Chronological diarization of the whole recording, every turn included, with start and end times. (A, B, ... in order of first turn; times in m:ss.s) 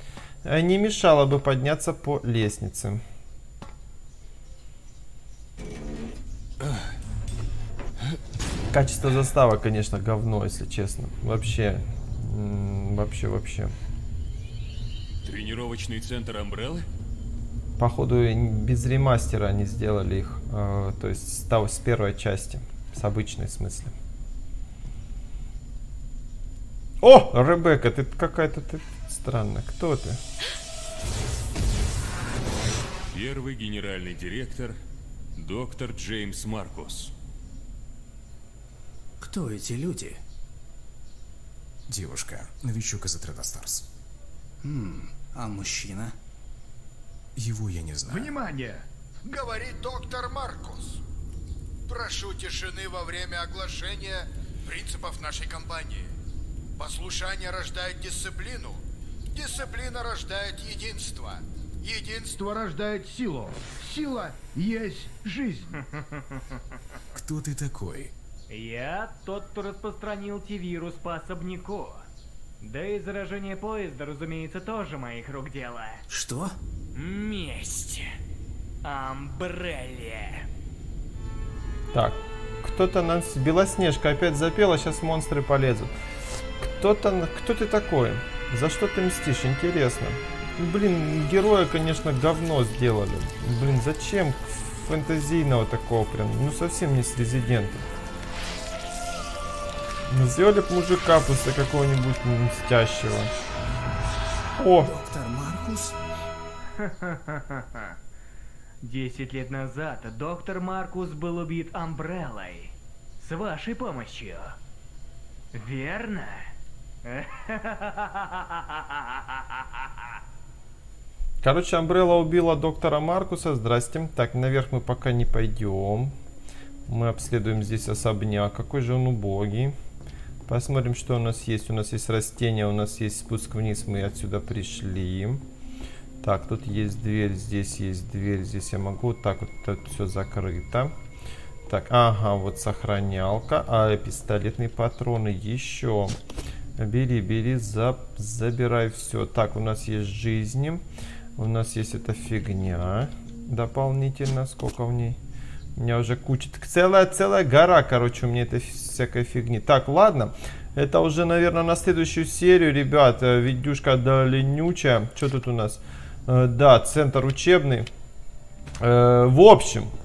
0:00.4-0:03.0 A
0:08.7-0:13.7 A
0:15.2-0:16.8 B
0:17.8-0:23.9 A
0:27.0-0:30.2 A
0:33.1-0:34.8 B
0:35.4-0:37.1 B
0:39.2-0:40.2 C
0:41.9-0:43.9 D
0:44.6-0:46.1 C
0:47.4-0:48.4 D
0:48.0-0:51.0 E
0:51.9-0:56.1 E
0:56.8-0:58.8 E
0:59.3-1:05.8 E
1:05.8-1:06.6 F
1:07.1-1:08.1 D
1:08.5-1:12.0 F
1:12.6-1:16.0 F
1:16.1-1:16.6 C
1:16.9-1:18.0 F
1:18.8-1:20.4 F
1:21.9-1:25.9 A
1:26.6-1:37.8 A
1:40.1-1:43.3 A
1:44.6-1:44.9 A
1:44.8-1:46.0 C
1:46.8-1:48.0 F
1:48.8-1:54.6 F
1:55.5-1:56.5 F
1:57.0-2:00.2 F
2:01.4-2:06.1 A
2:06.9-2:09.7 A
2:10.5-2:15.4 A
2:16.2-2:20.9 A
2:21.7-2:26.2 A
2:26.8-2:30.8 A
2:31.4-2:35.2 A
2:35.8-2:47.9 A
2:48.8-2:49.9 A